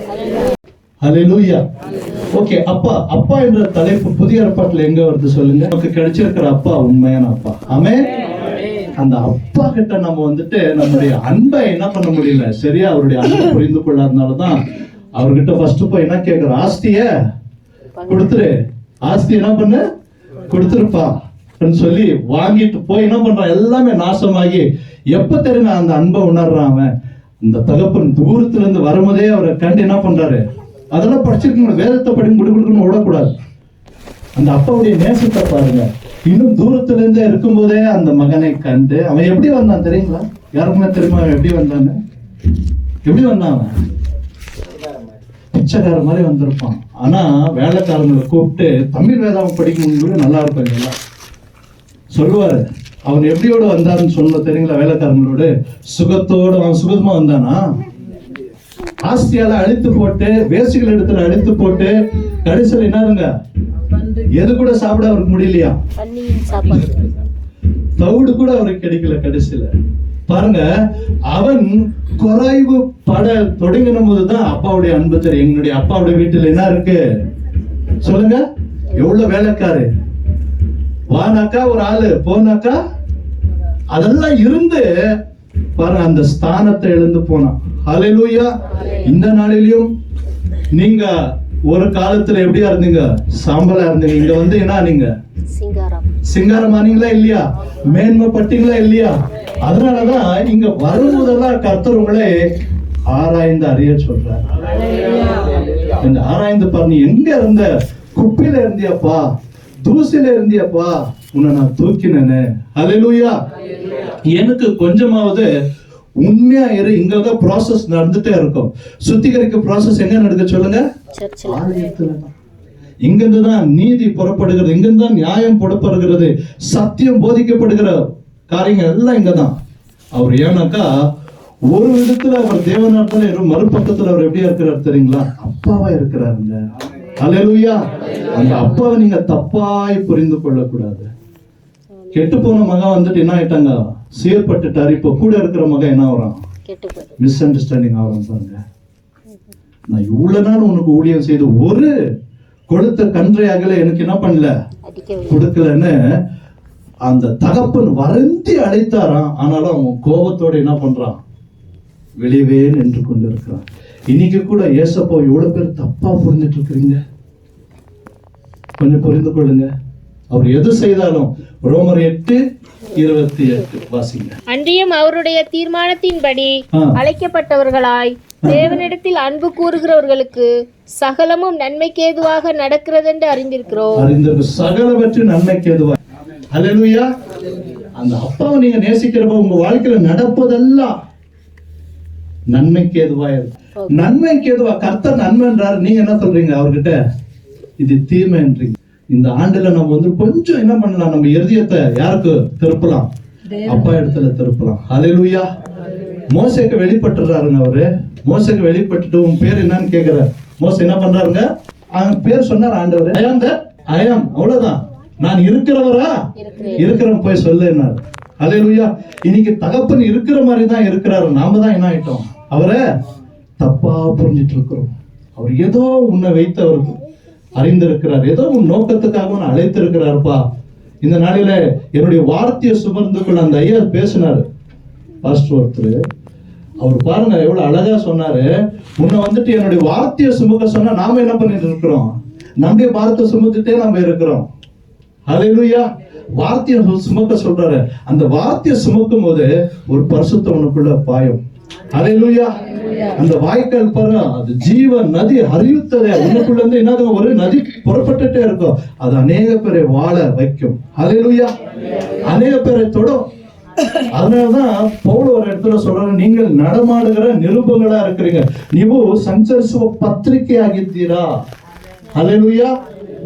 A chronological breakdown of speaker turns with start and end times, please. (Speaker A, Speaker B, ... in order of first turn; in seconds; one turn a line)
Speaker A: 1.0-1.6
Speaker A: 2.3-8.1
Speaker A: 9.0-14.7
Speaker A: 15.2-17.1
Speaker B: 18.0-18.3
Speaker A: 18.1-19.8
Speaker A: 20.5-26.9
Speaker A: 27.4-33.4
Speaker A: 34.4-42.0
Speaker A: 43.1-43.7
Speaker A: 45.5-50.9
Speaker A: 52.1-57.6
Speaker A: 59.1-61.9
Speaker A: 62.4-63.3
Speaker A: 64.0-65.8
Speaker B: 66.0-67.1
Speaker A: 68.0-69.7
Speaker A: 70.3-70.6
Speaker A: 71.3-77.0
Speaker A: 78.0-78.4
Speaker A: 78.9-79.9
Speaker A: 81.1-82.8
Speaker A: 83.9-84.9
Speaker A: 85.8-89.9
Speaker B: 88.8-89.1
Speaker A: 90.8-91.1
Speaker A: 91.7-95.1
Speaker B: 95.5-96.1
Speaker A: 96.3-102.5
Speaker A: 103.1-104.4
Speaker A: 106.0-109.2
Speaker A: 109.8-113.3
Speaker A: 114.2-115.5
Speaker A: 116.2-120.8
Speaker B: 121.1-121.9
Speaker A: 121.5-122.3
Speaker A: 123.0-128.0
Speaker A: 128.5-129.6
Speaker A: 130.2-130.9
Speaker A: 131.7-136.6
Speaker A: 137.2-141.1
Speaker A: 142.1-146.4
Speaker B: 146.7-147.2
Speaker A: 147.2-148.6
Speaker A: 149.9-151.9
Speaker A: 152.7-154.5
Speaker B: 154.9-155.5
Speaker A: 155.3-156.0
Speaker A: 157.1-161.2
Speaker A: 162.2-167.0
Speaker A: 168.8-169.7
Speaker A: 170.3-172.4
Speaker A: 172.9-174.4
Speaker B: 174.5-184.1
Speaker A: 178.4-178.8
Speaker A: 183.9-186.0
Speaker A: 186.5-187.1
Speaker A: 188.0-190.9
Speaker A: 192.5-196.9
Speaker B: 193.8-194.1
Speaker A: 197.8-203.1
Speaker A: 203.6-205.5
Speaker A: 206.3-216.2
Speaker B: 216.4-217.0
Speaker A: 216.8-222.8
Speaker A: 223.6-227.0
Speaker A: 227.6-230.4
Speaker A: 231.0-234.4
Speaker A: 235.2-236.0
Speaker A: 236.8-238.5
Speaker A: 239.0-244.5
Speaker A: 245.3-251.4
Speaker A: 251.9-252.5
Speaker A: 253.1-261.5
Speaker A: 262.2-263.2
Speaker A: 264.1-271.3
Speaker A: 272.1-272.7